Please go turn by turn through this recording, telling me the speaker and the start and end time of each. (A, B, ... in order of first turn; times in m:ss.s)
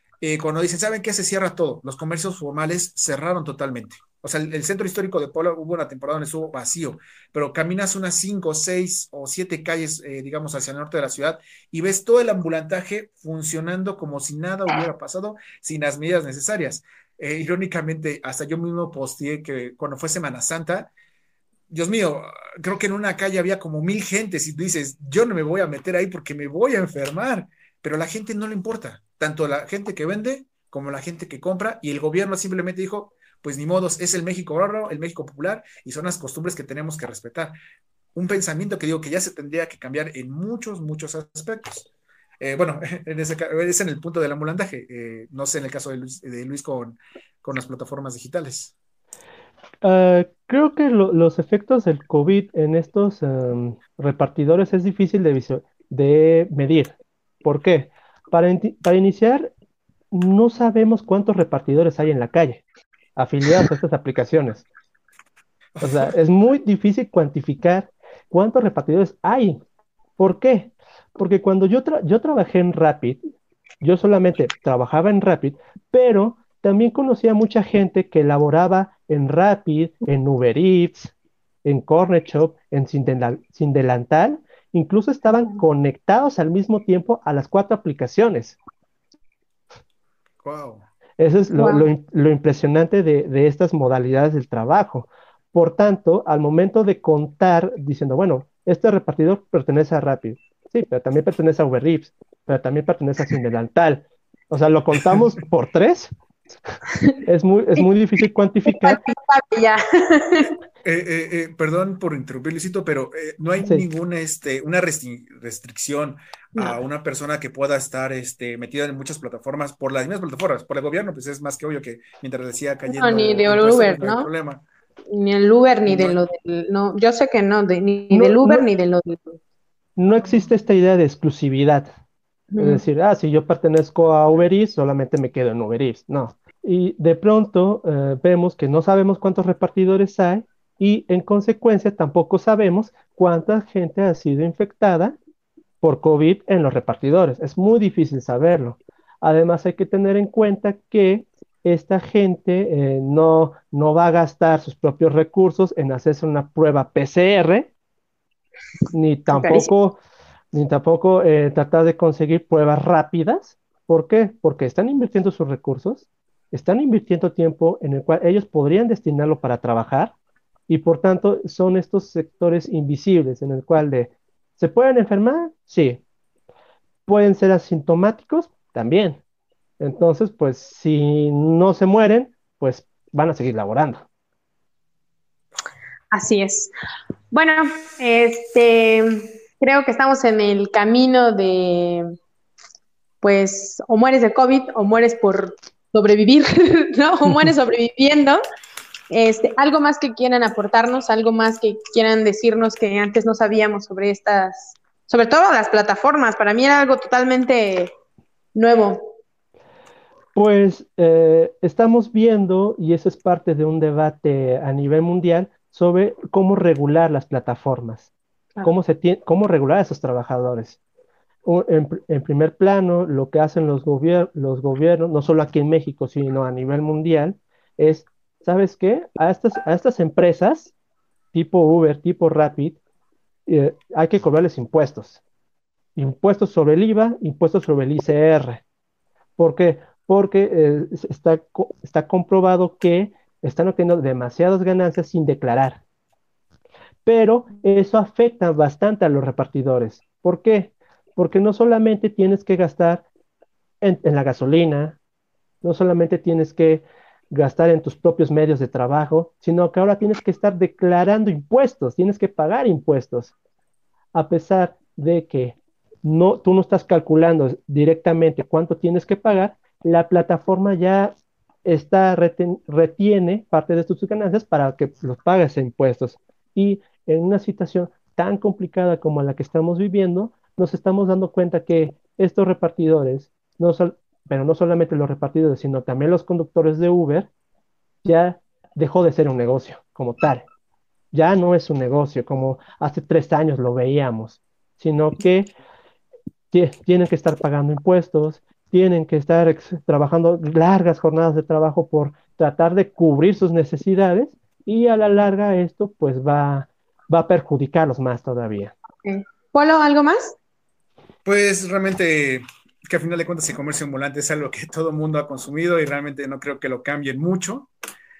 0:00.2-0:20.9 A
0:21.7-0:37.5 A
0:38.1-0:41.9 A
0:42.4-0:48.7 A
0:49.8-0:59.5 B
1:00.1-1:02.6 B
1:03.2-1:04.7 B
1:05.8-1:09.6 B
1:10.2-1:13.2 B
1:13.8-1:21.1 B
1:21.6-1:28.6 B
1:30.4-1:30.9 A
1:31.2-1:46.1 B
1:31.6-1:31.8 C
1:47.2-1:49.0 B
1:48.6-1:50.5 C
1:50.8-2:04.6 A
1:53.6-1:53.8 B
2:02.9-2:04.3 C
2:05.1-2:09.4 C
2:05.8-2:06.2 A
2:08.1-2:08.6 B
2:10.0-2:11.9 B
2:12.5-2:12.8 C
2:12.6-2:25.2 B
2:25.8-2:37.7 B
2:38.9-2:40.0 B
2:39.3-2:39.7 C
2:40.5-2:50.1 B
2:50.7-2:56.0 B
2:57.1-2:59.2 B
2:59.8-3:04.0 B
3:06.1-3:06.7 C
3:07.3-3:12.1 C
3:13.2-3:18.4 C
3:19.1-3:27.9 C
3:28.5-3:29.0 C
3:30.3-3:38.1 B
3:38.6-3:40.8 B
3:41.4-3:50.7 B
3:51.3-3:52.8 B
3:53.5-3:55.2 B
3:56.0-3:58.6 B
3:59.4-4:05.8 B
4:07.0-4:13.0 B
4:13.8-4:15.0 B
4:15.6-4:23.3 B
4:24.1-4:31.1 B
4:31.6-4:47.3 B
4:48.0-4:50.5 B
4:51.1-4:55.5 B
4:56.5-5:08.7 B
5:09.0-5:10.4 C
5:11.2-5:17.7 A